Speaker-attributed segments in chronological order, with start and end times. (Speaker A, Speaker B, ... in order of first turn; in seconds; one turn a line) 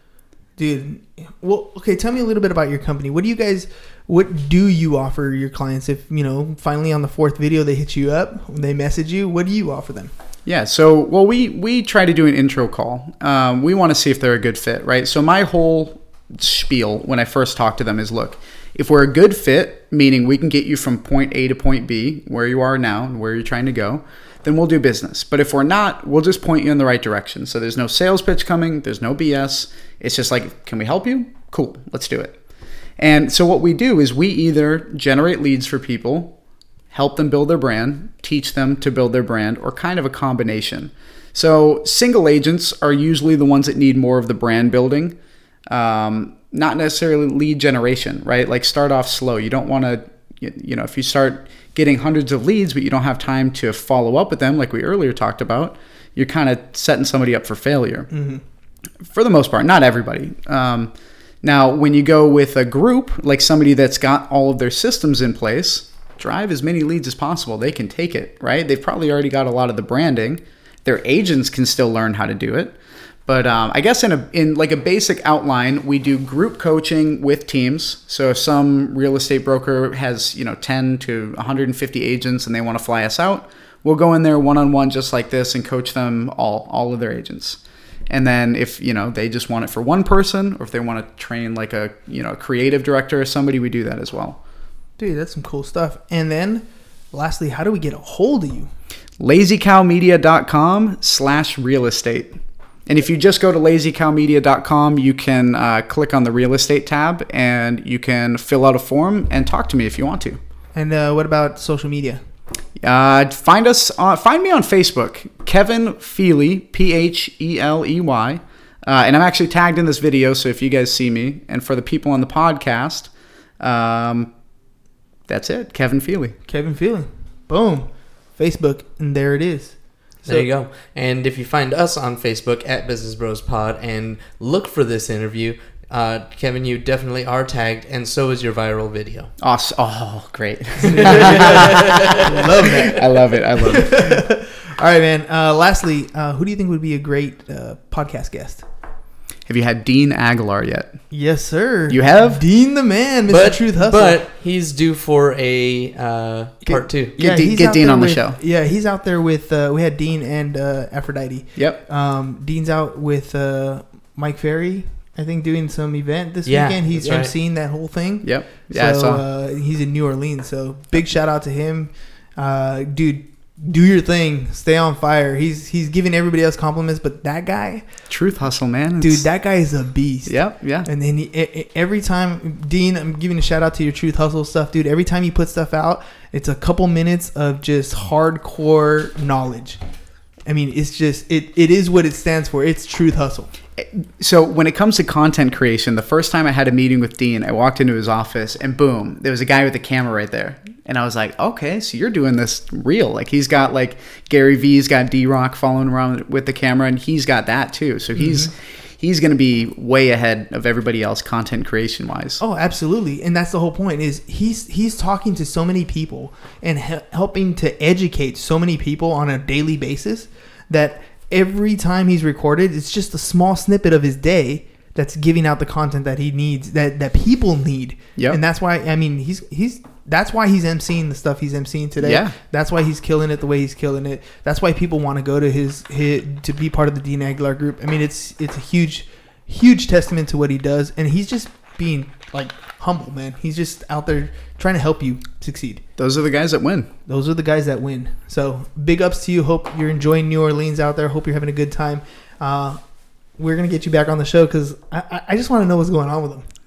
Speaker A: 0.6-10.1
Speaker B: 10.4-32.4
Speaker B: 33.0-36.4
Speaker B: 36.9-45.1
Speaker B: 45.7-58.1
Speaker A: 58.1-58.4
Speaker B: 59.0-60.9
Speaker B: 61.4-72.7
Speaker B: 73.2-94.4
Speaker A: 95.0-98.7
Speaker B: 99.2-102.3
Speaker B: 102.9-110.4
Speaker A: 110.7-112.2
Speaker B: 112.8-124.3
Speaker B: 125.3-126.3
Speaker A: 126.5-130.5
Speaker C: 130.2-139.3
Speaker B: 139.4-144.2
Speaker C: 140.9-142.9
Speaker A: 141.0-141.4
Speaker A: 142.2-148.6
Speaker B: 149.5-151.0
Speaker A: 151.1-154.2
Speaker B: 151.9-152.4
Speaker C: 153.3-157.1
Speaker A: 156.7-177.8
Speaker B: 157.2-158.4
Speaker C: 166.4-167.3
Speaker B: 168.2-169.2
Speaker B: 178.1-179.2
Speaker A: 179.0-189.8
Speaker B: 180.3-180.9
Speaker A: 190.4-193.5
Speaker B: 193.8-212.4
Speaker A: 208.2-208.5
Speaker A: 212.4-245.8
Speaker B: 232.0-232.3
Speaker B: 246.0-246.9
Speaker A: 247.1-252.8
Speaker A: 253.4-256.5